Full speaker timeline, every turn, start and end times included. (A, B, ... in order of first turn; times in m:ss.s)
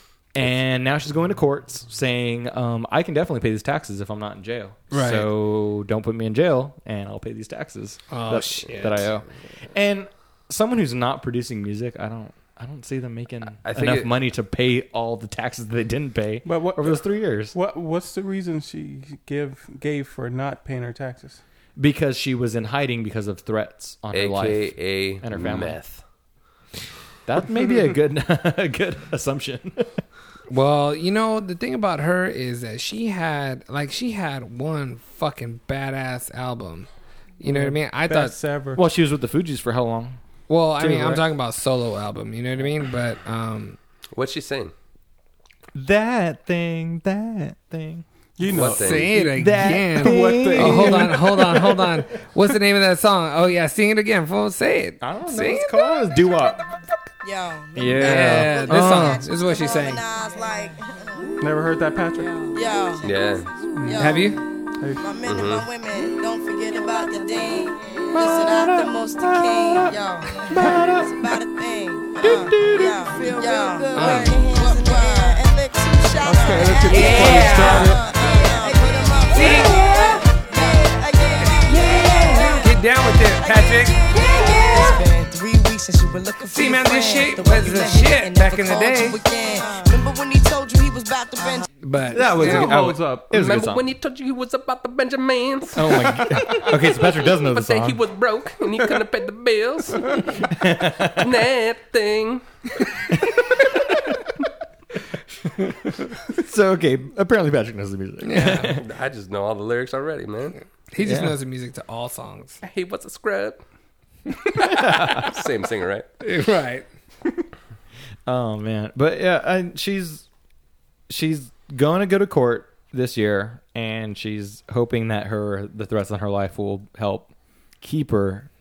0:00.3-0:17.5 A
0:04.9-0:05.3 B
0:08.1-0:09.2 B
0:13.6-0:14.1 C
0:16.4-0:17.0 D
0:17.5-0:21.4 D
0:21.8-0:25.8 A
0:24.1-0:26.0 C
0:27.2-0:30.0 A
0:30.5-0:36.9 B
0:37.4-0:38.4 B
0:37.4-0:38.8 D
0:38.8-0:40.2 A
0:40.5-0:43.8 B
0:40.8-0:41.2 A
0:44.1-0:44.7 C
0:45.7-0:48.0 A
0:48.4-0:51.5 D
0:48.5-0:49.1 C
0:48.7-0:55.7 B
0:49.2-0:51.9 A
0:55.0-0:56.6 A
0:57.2-1:01.5 E
0:57.8-0:59.2 A
0:58.0-1:00.0 B
1:01.4-1:02.3 D
1:02.2-1:04.4 E
1:03.0-1:03.5 C
1:03.8-1:04.1 D
1:03.9-1:04.4 B
1:05.0-1:31.7 E
1:05.2-1:05.7 C
1:08.1-1:09.9 A
1:10.5-1:11.3 A
1:12.2-1:13.1 A
1:13.9-1:14.5 B
1:16.2-1:18.2 D
1:16.8-1:18.0 B
1:19.3-1:20.1 B
1:21.7-1:25.0 B
1:26.5-1:29.2 B
1:31.8-1:32.8 B
1:32.1-1:33.8 A
1:32.2-1:33.3 D
1:33.3-1:40.4 C
1:35.7-1:38.0 A
1:40.4-1:41.3 A
1:41.2-1:42.4 C
1:45.6-1:48.8 A
1:48.2-1:48.8 B
1:48.8-1:50.6 C
1:50.9-1:52.6 B
1:51.0-1:51.4 A
1:52.6-1:53.6 C
1:54.6-1:56.0 C
1:54.7-1:55.2 A
1:56.2-1:56.9 B
1:58.2-2:00.3 A
2:01.1-2:07.3 A
2:07.8-2:08.5 A